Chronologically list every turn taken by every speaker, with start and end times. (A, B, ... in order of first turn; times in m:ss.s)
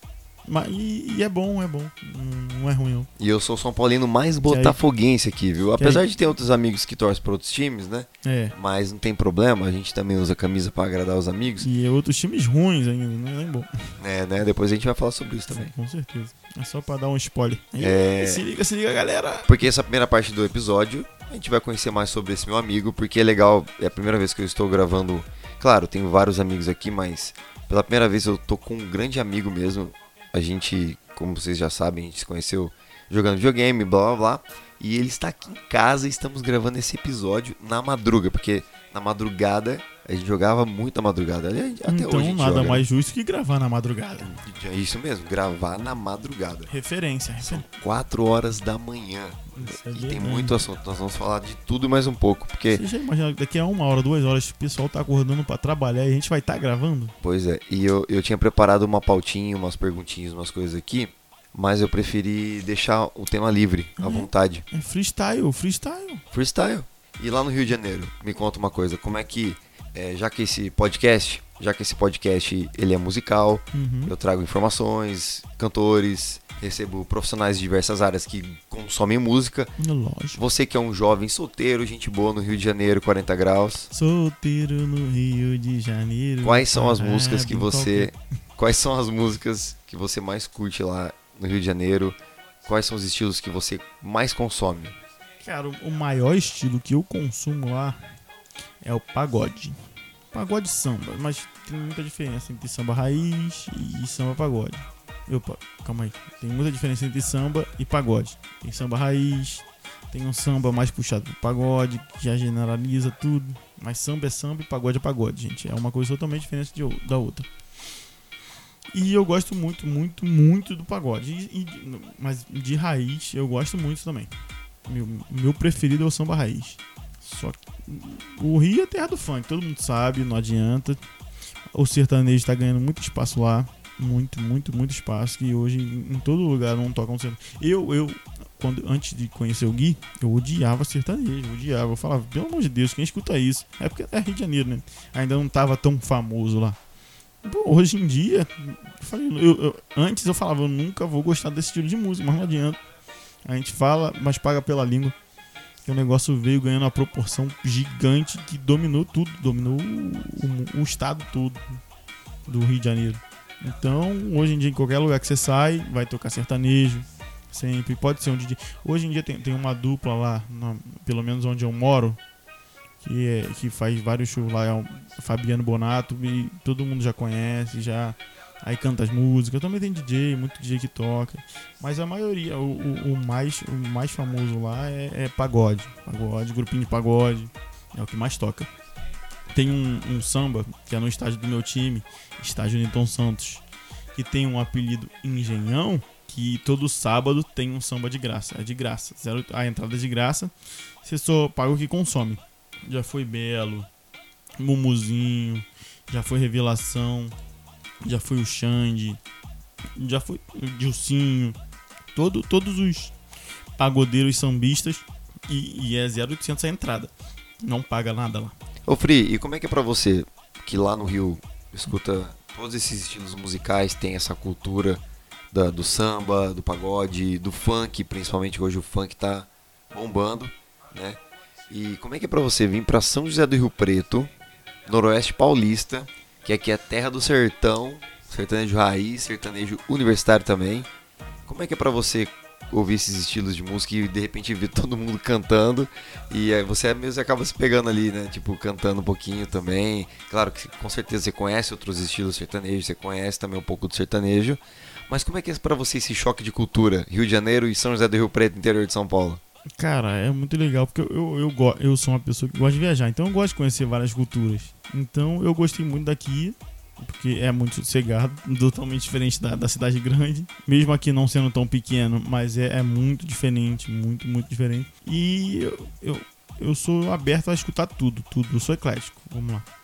0:00.4-0:03.1 A
0:03.2-0:11.7 B
0:04.4-0:04.8 A
0:05.8-0:06.0 A
0:08.2-0:08.5 A
0:11.6-0:13.9 A
0:14.0-0:15.7 B
0:15.5-0:19.5 A
0:17.8-0:18.4 B
0:19.5-0:42.9 B
0:41.9-0:44.4 A
0:44.2-0:46.7 B
0:46.7-0:47.6 A
0:47.4-0:52.8 B
0:49.5-0:50.6 A
0:52.7-0:57.1 A
0:57.2-1:04.6 B
1:04.0-1:06.2 A
1:06.3-1:19.7 B
1:13.7-1:14.1 A
1:19.8-1:20.4 A
1:20.4-1:23.9 B
1:23.9-1:28.1 A
1:26.4-1:34.9 B
1:35.4-1:38.0 A
1:38.8-1:39.8 A
1:40.3-1:57.5 A
1:58.9-2:04.3 A
2:04.9-2:11.0 A
2:11.8-2:26.8 A
2:27.4-2:32.8 A
2:33.4-2:35.1 A
2:35.8-2:41.6 A
2:42.5-2:52.2 A
2:53.0-3:08.7 A
3:09.5-3:13.6 A
3:14.1-3:20.5 A
3:21.0-3:23.9 A
3:24.6-3:27.4 A
3:28.0-3:29.2 A
3:30.0-3:31.6 A
3:32.1-3:33.1 A
3:33.8-3:37.1 A
3:37.6-3:38.5 A
3:38.9-3:54.3 B
3:54.9-4:00.9 B
4:01.5-4:19.4 B
4:19.8-4:39.7 A